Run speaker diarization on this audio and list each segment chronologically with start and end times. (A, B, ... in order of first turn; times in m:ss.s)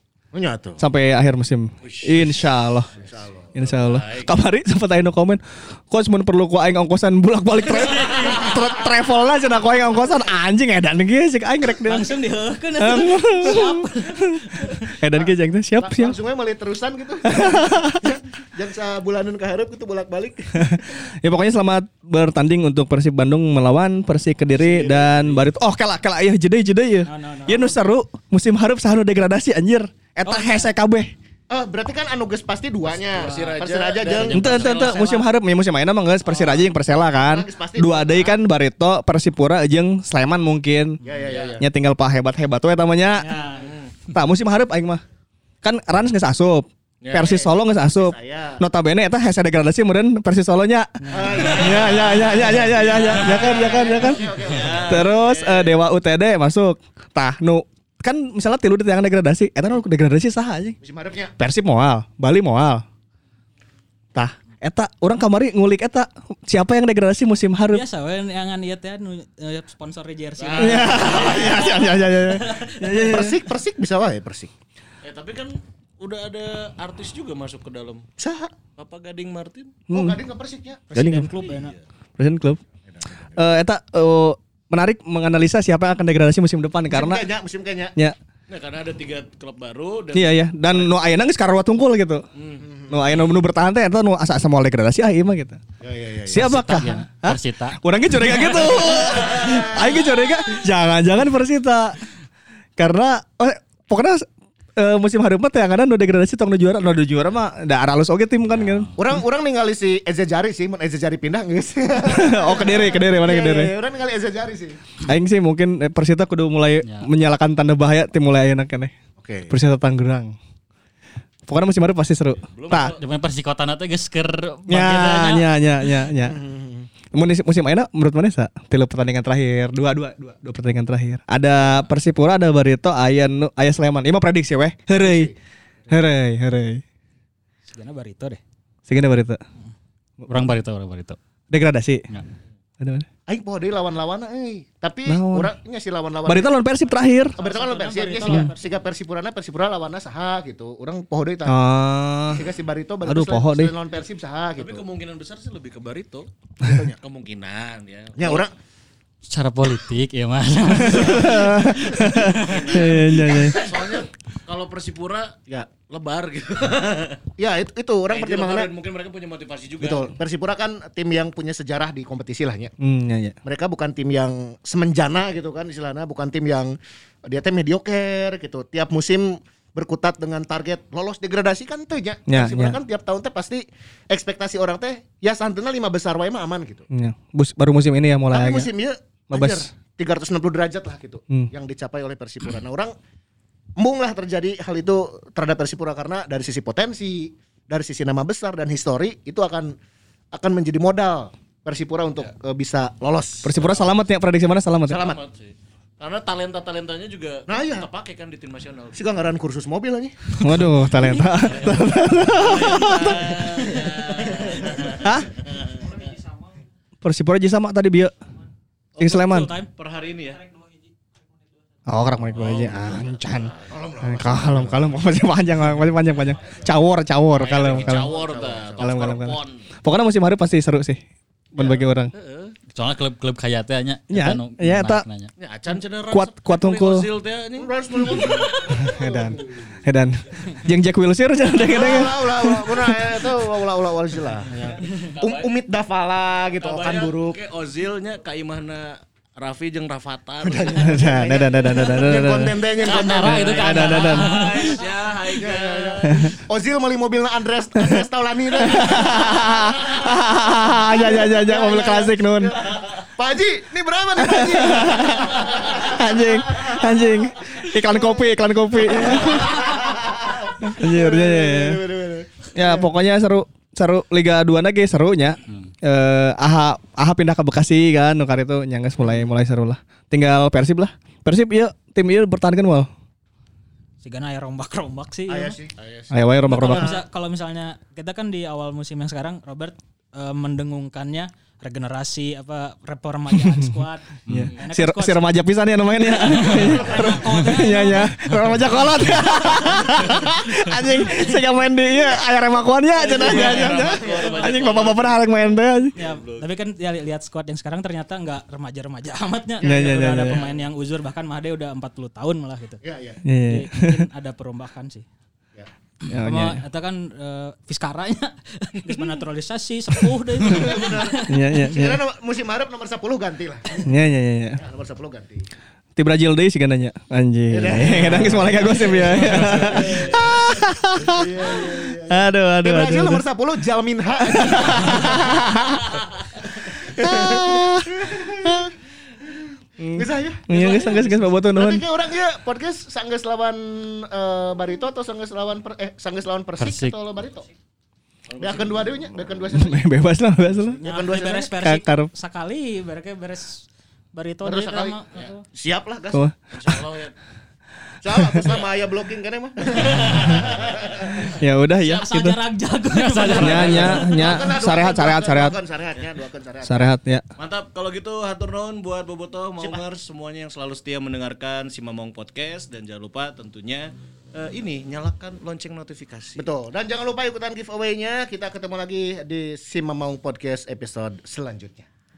0:00.3-0:00.8 A
0:00.8-0:02.9 B
0:01.8-0:02.2 C
0:02.9-0:03.5 A
0:03.5-0:12.1 B
0:03.7-0:04.3 C
0:11.8-0:14.9 D
0:12.8-0:16.2 B
0:15.1-0:21.0 A
0:17.3-0:18.1 B
0:20.6-0:31.1 B
0:24.7-0:25.4 C
0:27.1-0:27.7 D
0:30.2-0:30.7 D
0:31.5-0:34.6 A
0:32.9-0:35.0 C
0:34.3-0:41.0 B
0:34.4-0:35.2 D
0:36.3-0:36.6 D
0:37.2-0:38.4 A
0:41.0-0:41.6 A
0:41.0-0:41.6 C
0:41.6-0:43.4 B
0:43.2-0:43.7 D
0:43.6-0:43.9 C
0:44.1-0:45.0 B
0:45.6-0:50.9 B
0:47.0-0:47.5 C
0:47.7-0:48.6 A
0:51.0-0:51.8 D
0:51.1-0:55.2 A
0:51.3-0:55.8 C
0:51.5-0:54.3 B
0:54.8-1:00.8 B
1:00.8-1:01.3 A
1:01.4-1:02.8 B
1:04.1-1:07.8 B
1:07.7-1:13.1 D
1:10.4-1:11.9 C
1:10.6-1:13.4 B
1:13.1-1:14.5 A
1:15.0-1:18.0 C
1:18.2-1:18.5 A
1:18.8-1:19.8 C
1:19.9-1:20.2 B
1:19.9-1:20.9 A
1:20.9-1:21.7 D
1:20.9-1:21.3 B
1:21.4-1:21.8 C
1:22.2-1:22.6 B
1:22.9-1:23.4 A
1:23.4-1:27.3 B
1:26.9-1:27.9 A
1:28.5-1:30.9 C
1:30.1-1:32.2 B
1:32.4-1:32.6 C
1:32.6-1:33.0 A
1:32.9-1:35.6 B
1:35.8-1:36.6 A
1:36.3-1:42.0 B
1:36.3-1:37.8 E
1:38.3-1:38.7 E
1:38.9-1:39.6 C
1:39.1-1:39.9 A
1:42.8-1:48.9 B
1:48.5-1:48.9 E
1:49.0-1:54.8 A
1:52.1-1:53.7 B
1:55.0-1:58.9 B
1:56.8-1:57.1 E
1:59.2-1:59.5 A
1:59.5-2:00.3 B
2:01.5-2:02.9 B
2:02.4-2:03.0 C
2:02.7-2:05.4 E
2:04.7-2:06.4 B
2:06.2-2:06.9 A
2:07.1-2:15.3 B
2:14.9-2:15.3 A
2:15.9-2:16.8 B
2:17.7-2:18.4 D
2:18.9-2:19.4 B
2:20.3-2:21.2 E
2:21.5-2:22.0 B
2:22.8-2:23.0 B
2:23.3-2:26.6 A
2:25.0-2:25.5 B
2:26.2-2:27.4 B
2:27.4-2:31.6 A
2:27.4-2:28.7 D
2:31.4-2:32.5 B
2:32.3-2:34.8 A
2:33.0-2:33.7 B
2:34.6-2:36.3 C
2:36.6-2:37.0 A
2:37.0-2:38.4 C
2:38.2-2:38.5 A
2:39.2-2:42.4 E
2:40.8-2:43.6 B
2:42.3-2:47.2 C
2:43.2-2:44.0 A
2:47.4-2:48.7 A
2:48.1-2:50.1 C
2:49.8-2:52.7 A
2:52.8-2:53.4 B
2:53.4-3:06.8 A
3:02.3-3:02.8 B
3:06.9-3:08.7 B
3:08.3-3:12.9 A
3:09.3-3:09.7 B
3:13.8-3:19.8 A
3:20.3-3:23.5 A
3:23.4-3:25.1 B
3:23.5-3:24.0 C
3:24.8-3:29.0 C
3:27.5-3:27.9 A
3:28.9-3:30.1 A
3:30.4-3:33.5 B
3:32.3-3:35.8 C
3:33.5-3:35.0 A
3:33.6-3:34.6 D
3:35.0-3:35.3 B
3:37.0-3:38.1 B
3:39.0-3:39.5 B
3:39.0-3:39.7 D
3:39.8-3:40.4 C
3:41.9-3:48.2 B
3:42.3-3:43.5 C
3:43.7-3:44.9 A
3:47.4-3:49.6 C
3:47.6-3:49.0 A
3:48.8-3:51.0 B
3:51.5-3:52.1 B
3:51.6-3:52.5 C
3:52.7-3:55.3 E
3:54.1-3:55.0 B
3:55.4-3:58.8 C
3:56.1-3:57.1 B
3:57.6-3:59.8 A
3:58.7-4:03.2 B
4:01.6-4:07.4 A
4:04.6-4:05.5 C
4:06.6-4:11.0 C
4:10.4-4:13.5 A
4:10.8-4:12.6 B
4:12.8-4:16.3 C
4:12.8-4:14.8 E
4:13.2-4:14.3 B
4:15.3-4:32.9 A
4:16.1-4:16.3 B
4:17.8-4:18.0 B
4:18.6-4:22.6 B
4:24.2-4:29.7 B
4:30.6-4:31.8 B
4:32.5-4:42.9 B
4:44.0-4:45.6 D
4:45.3-4:45.7 A
4:45.8-4:46.1 C
4:46.1-4:47.0 B
4:46.5-4:47.0 A
4:46.5-4:55.2 D
4:53.3-4:53.7 B
4:54.2-4:54.5 E
4:54.3-5:05.9 B
4:56.2-4:58.2 D
5:03.0-5:05.2 C
5:03.2-5:04.8 A
5:05.9-5:06.5 C
5:06.0-5:12.8 D
5:09.6-5:10.4 B
5:09.6-5:10.5 A
5:12.8-5:13.2 A
5:13.2-5:14.0 B
5:13.5-5:15.0 D
5:16.1-5:16.6 B
5:16.2-5:21.4 D
5:20.5-5:23.8 A
5:21.2-5:22.0 B
5:23.8-5:24.6 B
5:24.5-5:25.4 A
5:26.0-5:33.2 B
5:27.5-5:30.4 A
5:31.0-5:35.8 A
5:34.3-5:35.9 B
5:36.3-5:38.7 A
5:36.8-5:38.7 B
5:39.2-5:47.4 A
5:39.8-5:41.8 B
5:40.6-5:41.3 D
5:46.6-5:47.0 E
5:48.3-5:49.3 C
5:48.4-5:49.8 A
5:49.5-5:50.8 B
5:50.8-5:51.5 A
5:50.8-5:55.4 D
5:51.6-5:52.1 B
5:54.4-5:56.3 A
5:56.5-5:57.1 C
5:58.0-6:01.3 A
5:58.2-5:58.4 B
5:59.8-6:00.9 C
6:01.3-6:02.4 B
6:02.0-6:04.2 D
6:02.9-6:04.0 E
6:03.3-6:05.6 B
6:03.3-6:04.0 C
6:03.6-6:06.9 A
6:06.6-6:07.2 B
6:07.4-6:16.5 C
6:16.4-6:21.8 A